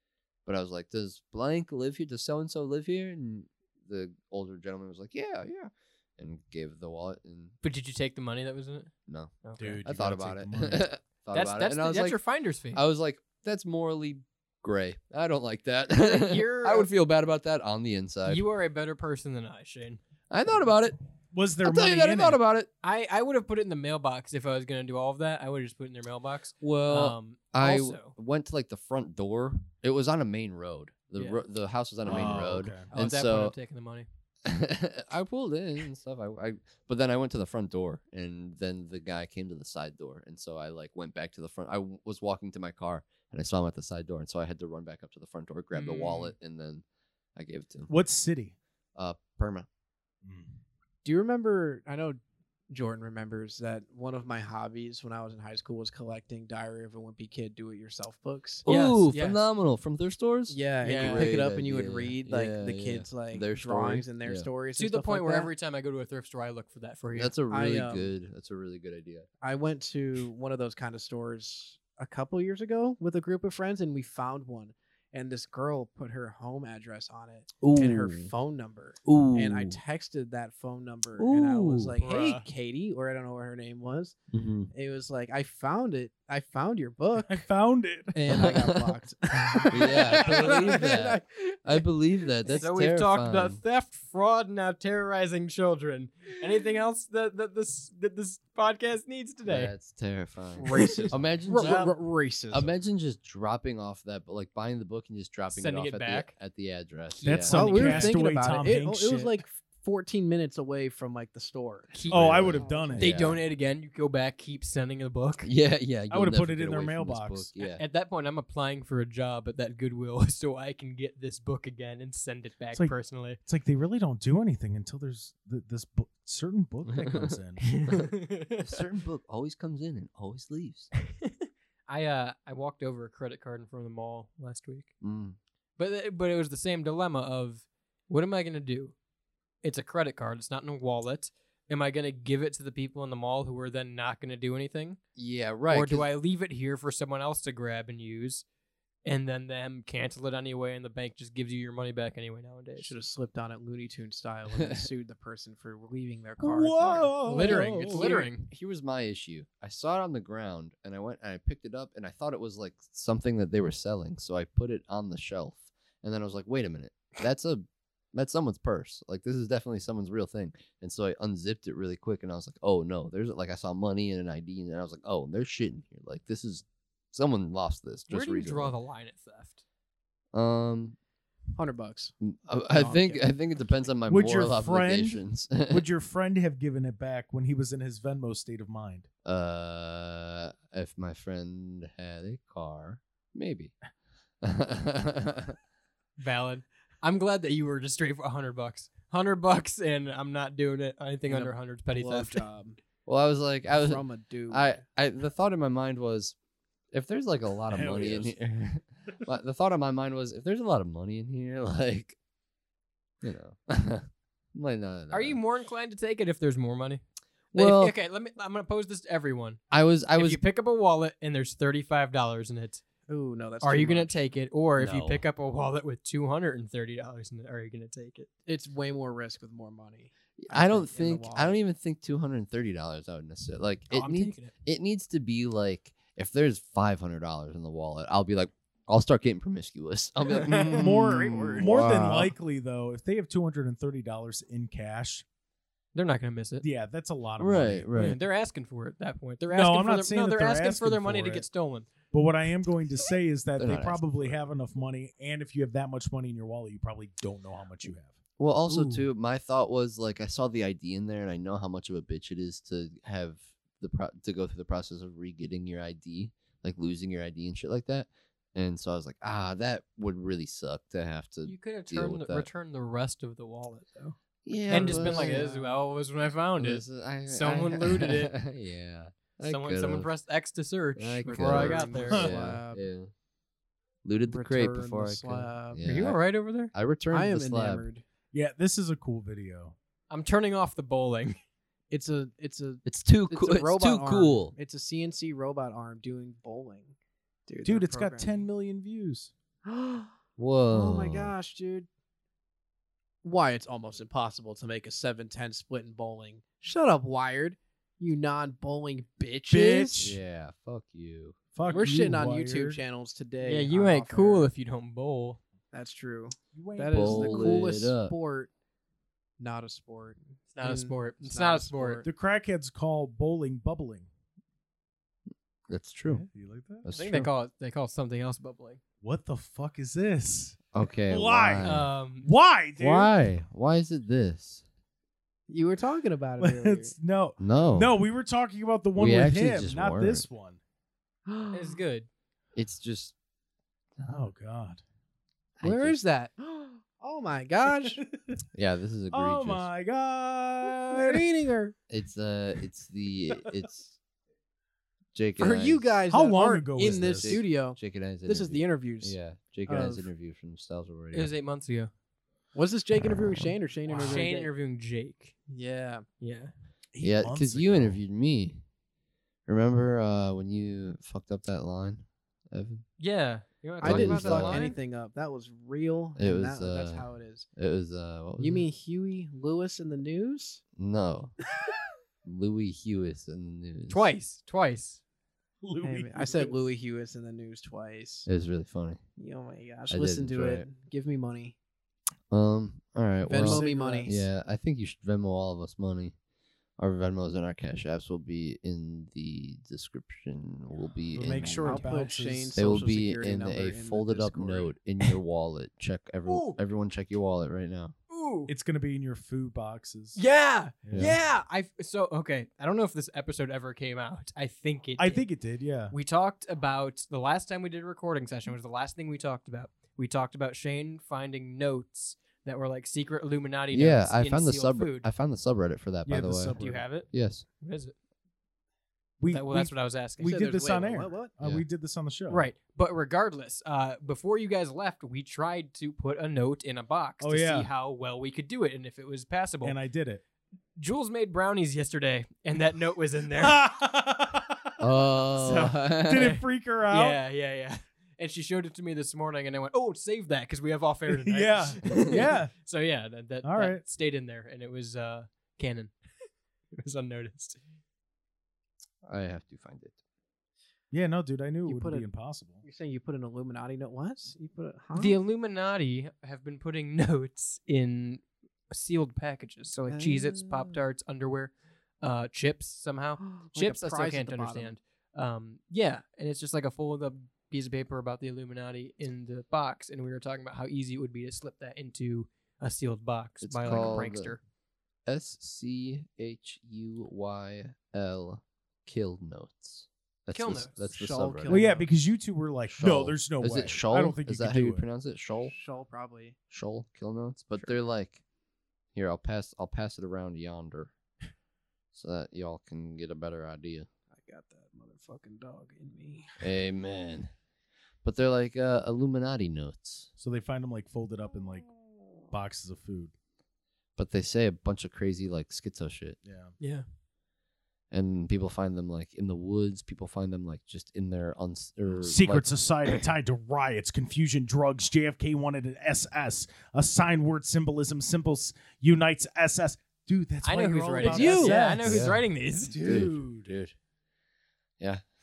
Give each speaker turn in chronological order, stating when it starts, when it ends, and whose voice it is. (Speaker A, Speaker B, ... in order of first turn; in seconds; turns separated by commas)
Speaker A: 0.5-7.5, Speaker B: 7.6-8.9, Speaker A: 9.1-12.2, Speaker B: 9.4-9.8, Speaker C: 9.6-10.9, Speaker B: 11.3-12.8, Speaker A: 12.7-18.4, Speaker B: 15.9-16.9, Speaker B: 18.2-20.0, Speaker A: 20.3-20.9, Speaker C: 21.3-22.4, Speaker A: 21.6-22.7, Speaker B: 22.8-28.1, Speaker A: 26.6-33.5, Speaker B: 31.1-31.4, Speaker C: 32.0-32.9, Speaker B: 32.1-34.0, Speaker A: 34.5-46.8, Speaker B: 45.7-46.3, Speaker A: 47.4-47.9, Speaker C: 47.9-48.5, Speaker A: 49.0-49.7, Speaker C: 50.2-50.5, Speaker D: 51.0-52.2, Speaker D: 52.7-58.6, Speaker B: 58.6-59.4, Speaker A: 58.6-64.5, Speaker D: 60.5-65.5, Speaker B: 60.8-61.4, Speaker B: 64.8-67.3, Speaker A: 67.1-69.3, Speaker D: 67.5-68.1, Speaker D: 69.4-84.2, Speaker A: 77.6-78.3, Speaker A: 79.0-79.8, Speaker A: 81.2-82.0, Speaker B: 82.0-82.5, Speaker A: 84.3-84.7, Speaker D: 84.7-87.4, Speaker C: 87.2-88.1, Speaker D: 88.1-91.4, Speaker B: 88.2-88.5, Speaker A: 88.3-89.0, Speaker A: 89.5-93.6, Speaker B: 92.5-99.7, Speaker A: 99.4-101.9, Speaker D: 100.6-102.7, Speaker B: 100.6-101.1, Speaker A: 102.5-107.9, Speaker B: 105.5-106.3, Speaker B: 107.1-108.1, Speaker C: 107.2-109.4, Speaker D: 107.5-113.2, Speaker B: 111.9-112.4, Speaker A: 112.0-112.6, Speaker C: 112.1-113.4, Speaker B: 113.0-115.5, Speaker A: 115.4-117.8, Speaker C: 116.1-117.5, Speaker B: 117.6-123.4, Speaker C: 123.5-127.7, Speaker A: 126.9-127.3, Speaker B: 127.6-128.7, Speaker A: 128.6-130.9, Speaker B: 131.2-134.9, Speaker A: 135.0-135.4, Speaker B: 135.8-138.9, Speaker B: 139.6-145.0, Speaker A: 145.2-146.1, Speaker B: 145.7-148.4, Speaker B: 149.0-152.9, Speaker D: 152.8-157.7, Speaker A: 154.6-154.9, Speaker C: 156.4-158.1, Speaker B: 157.2-158.5, Speaker A: 157.8-178.7, Speaker B: 178.1-179.6, Speaker A: 180.3-180.9, Speaker D: 181.6-182.1, Speaker A: 182.2-185.9, Speaker D: 182.7-183.2, Speaker C: 184.1-189.1, Speaker A: 189.2-193.7, Speaker A: 194.4-195.6, Speaker B: 196.2-202.4, Speaker D: 201.3-202.8, Speaker A: 203.1-206.3, Speaker D: 203.7-204.8, Speaker A: 206.9-212.2, Speaker C: 207.7-208.3, Speaker A: 213.2-215.4, Speaker B: 215.1-219.6, Speaker A: 217.5-217.9, Speaker A: 219.7-220.4, Speaker B: 220.1-222.8, Speaker D: 223.1-224.2, Speaker B: 223.6-228.3, Speaker A: 224.8-225.2, Speaker D: 228.5-231.6, Speaker A: 230.4-242.3, Speaker B: 233.9-234.5, Speaker B: 240.3-241.1, Speaker D: 240.4-241.7, Speaker C: 240.8-245.2, Speaker B: 245.9-246.6, Speaker C: 246.6-247.9, Speaker A: 247.4-248.2, Speaker B: 247.9-251.9, Speaker C: 249.5-251.5, Speaker C: 252.1-258.1, Speaker A: 253.6-254.3, Speaker A: 258.4-272.5, Speaker B: 258.7-259.0, Speaker B: 271.4-274.1, Speaker A: 274.4-275.4, Speaker B: 274.7-278.4, Speaker D: 274.7-275.8, Speaker A: 276.6-280.1, Speaker B: 279.4-282.3, Speaker A: 280.9-283.1, Speaker D: 281.3-282.9, Speaker C: 282.1-282.5, Speaker A: 284.0-286.2, Speaker D: 284.3-285.8, Speaker B: 285.8-286.7, Speaker A: 286.7-287.9, Speaker D: 287.1-288.0, Speaker C: 288.3-289.7, Speaker B: 290.1-291.4, Speaker D: 291.9-296.9, Speaker A: 292.8-294.5, Speaker D: 297.5-298.4, Speaker C: 297.6-299.3, Speaker D: 299.6-300.1, Speaker A: 300.4-301.3, Speaker D: 300.7-301.9, Speaker D: 303.2-310.1, Speaker C: 309.5-310.2, Speaker A: 310.0-311.4, Speaker C: 311.5-312.8, Speaker D: 311.7-314.5, Speaker B: 313.4-315.4, Speaker D: 315.7-318.5, Speaker C: 316.5-317.7, Speaker A: 316.9-318.1, Speaker D: 319.4-322.1, Speaker B: 320.5-322.0, Speaker C: 322.0-324.1, Speaker A: 325.7-326.2, Speaker C: 326.1-326.9, Speaker A: 326.8-327.3, Speaker B: 326.9-328.8, Speaker C: 329.0-331.7, Speaker A: 330.7-331.9, Speaker B: 331.6-332.3, Speaker C: 332.2-333.2, Speaker A: 332.8-334.6, Speaker D: 335.5-336.9, Speaker C: 336.4-340.6, Speaker A: 337.4-337.9, Speaker A: 338.9-340.2, Speaker D: 341.3-341.8, Speaker B: 341.5-342.1, Speaker A: 342.5-343.1, Speaker C: 344.1-344.8, Speaker A: 345.6-346.0, Speaker D: 345.6-348.0, Speaker A: 348.5-349.7, Speaker C: 349.1-351.3, Speaker D: 350.9-351.7, Speaker A: 351.9-354.0, Speaker A: 355.1-356.0, Speaker D: 355.4-360.1, Speaker C: 356.1-357.4, Speaker A: 356.8-361.3, Speaker B: 361.1-361.9, Speaker D: 362.5-364.5, Speaker B: 363.9-365.3, Speaker D: 365.5-366.0, Speaker B: 366.2-366.5, Speaker C: 366.9-368.0, Speaker A: 367.0-368.6, Speaker A: 369.5-372.8, Speaker B: 373.0-374.8, Speaker D: 373.8-377.4, Speaker A: 373.8-374.7, Speaker A: 376.1-378.6, Speaker D: 378.4-380.6, Speaker A: 380.8-381.4, Speaker A: 382.2-384.1, Speaker B: 383.9-385.0, Speaker C: 385.6-386.6, Speaker D: 385.8-388.3, Speaker A: 388.2-389.0, Speaker D: 389.2-391.6, Speaker A: 389.9-390.7, Speaker A: 392.3-396.1, Speaker D: 393.2-394.3, Speaker C: 393.4-394.1, Speaker A: 396.8-401.9, Speaker C: 401.1-402.6, Speaker D: 401.3-404.7, Speaker A: 402.5-407.9, Speaker B: 406.2-406.6, Speaker B: 408.1-408.5, Speaker C: 408.5-410.2, Speaker B: 410.1-415.3, Speaker C: 410.8-411.2, Speaker A: 410.9-411.2, Speaker C: 415.0-415.9, Speaker B: 415.9-425.1, Speaker A: 423.7-426.6, Speaker C: 426.1-426.8, Speaker B: 426.5-427.9, Speaker A: 427.1-427.4, Speaker C: 429.2-432.5, Speaker B: 429.3-430.4, Speaker D: 430.2-431.3, Speaker B: 432.3-439.8, Speaker C: 437.2-437.7, Speaker C: 439.6-440.2, Speaker B: 440.8-443.6, Speaker C: 443.4-444.7, Speaker A: 444.8-446.4, Speaker B: 445.4-446.4, Speaker C: 445.9-447.2, Speaker B: 446.9-455.9, Speaker C: 451.1-452.5, Speaker C: 453.4-453.8, Speaker B: 456.7-457.6, Speaker A: 459.0-460.0, Speaker C: 460.9-462.6, Speaker D: 461.6-462.1, Speaker D: 462.6-465.2, Speaker B: 464.9-484.4, Speaker D: 469.9-470.8, Speaker D: 473.2-474.7, Speaker A: 483.4-484.4, Speaker C: 483.6-484.0, Speaker A: 485.1-491.7, Speaker B: 490.3-490.8, Speaker D: 490.9-491.9, Speaker C: 491.5-494.8, Speaker A: 492.7-495.5, Speaker D: 495.5-496.4, Speaker A: 496.5-498.2, Speaker A: 498.9-500.9, Speaker A: 501.9-503.9, Speaker D: 504.1-506.4, Speaker A: 506.4-507.3, Speaker A: 508.0-510.1, Speaker C: 510.2-511.7, Speaker C: 512.3-513.1, Speaker A: 514.0-516.2, Speaker C: 516.2-516.5, Speaker A: 517.9-522.9, Speaker C: 522.0-533.5, Speaker B: 530.4-532.9, Speaker D: 531.0-531.5, Speaker A: 531.8-532.2, Speaker A: 532.8-533.7